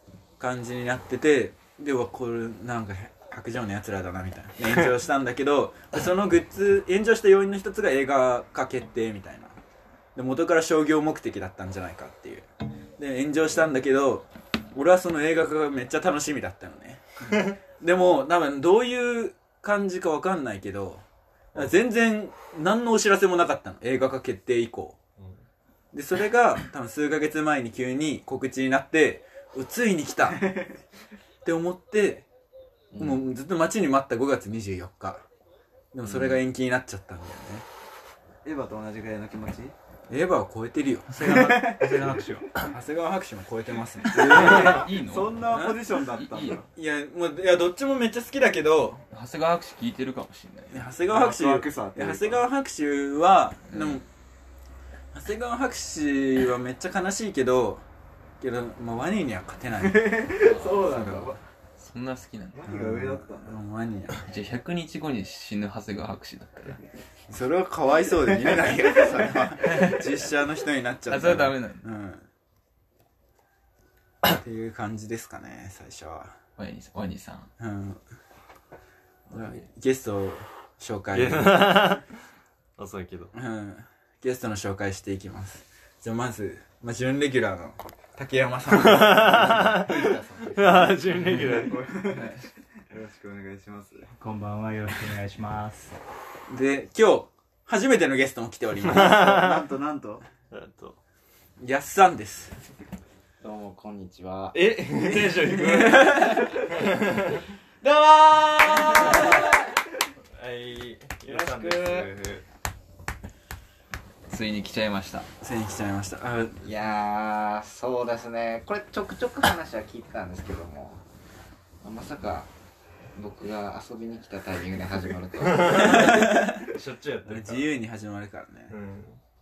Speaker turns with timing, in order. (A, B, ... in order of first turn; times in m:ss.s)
0:00.4-0:09.6 A
0:10.1-0:12.5 A
0:13.0-0:25.0 A
0:25.9-0:30.5 A
0:30.4-0:30.7 B
0:31.4-0:32.2 A
0:32.9-0:33.2 C
0:33.0-0:35.2 A
0:35.9-0:37.7 A
0:38.4-0:39.7 B
0:40.1-0:41.1 A
0:41.1-0:42.5 D
0:41.2-0:42.0 B
0:42.6-0:44.9 A
0:44.1-0:46.6 B
0:44.1-0:46.6 E
0:46.7-0:49.0 A
0:49.1-0:50.9 E
0:50.7-0:54.0 A
0:51.1-0:52.4 B
0:53.7-0:54.0 E
0:55.1-0:57.8 A
0:58.4-1:01.4 A
0:59.8-1:01.4 B
1:00.4-1:00.9 E
1:01.8-1:02.6 E
1:02.5-1:03.6 B
1:02.6-1:04.2 A
1:04.2-1:06.8 E
1:07.3-1:12.2 A
1:09.7-1:10.0 E
1:11.1-1:11.8 E
1:14.3-1:16.4 A
1:16.6-1:17.5 E
1:17.6-1:18.0 A
1:19.3-1:21.8 A
1:21.1-1:22.0 F
1:22.8-1:23.3 F
1:23.3-1:31.0 A
1:28.7-1:31.8 F
1:31.3-1:34.1 B
1:32.1-1:32.4 A
1:34.2-1:35.9 D
1:36.5-1:39.4 A
1:38.8-1:39.6 F
1:39.1-1:40.2 B
1:40.5-1:41.0 F
1:41.6-1:42.6 A
1:43.4-1:44.6 C
1:44.5-1:47.4 F
1:45.3-1:45.9 B
1:45.8-1:46.6 A
1:47.8-1:49.5 A
1:48.9-1:49.5 F
1:50.4-1:52.4 F
1:51.3-1:52.0 C
1:54.3-1:55.3 E
1:55.4-1:56.6 A
1:56.6-2:01.0 C
2:01.8-2:02.5 C
2:03.2-2:06.1 C
2:05.4-2:07.7 F
2:05.8-2:06.7 A
2:07.2-2:08.7 A
2:08.7-2:09.2 F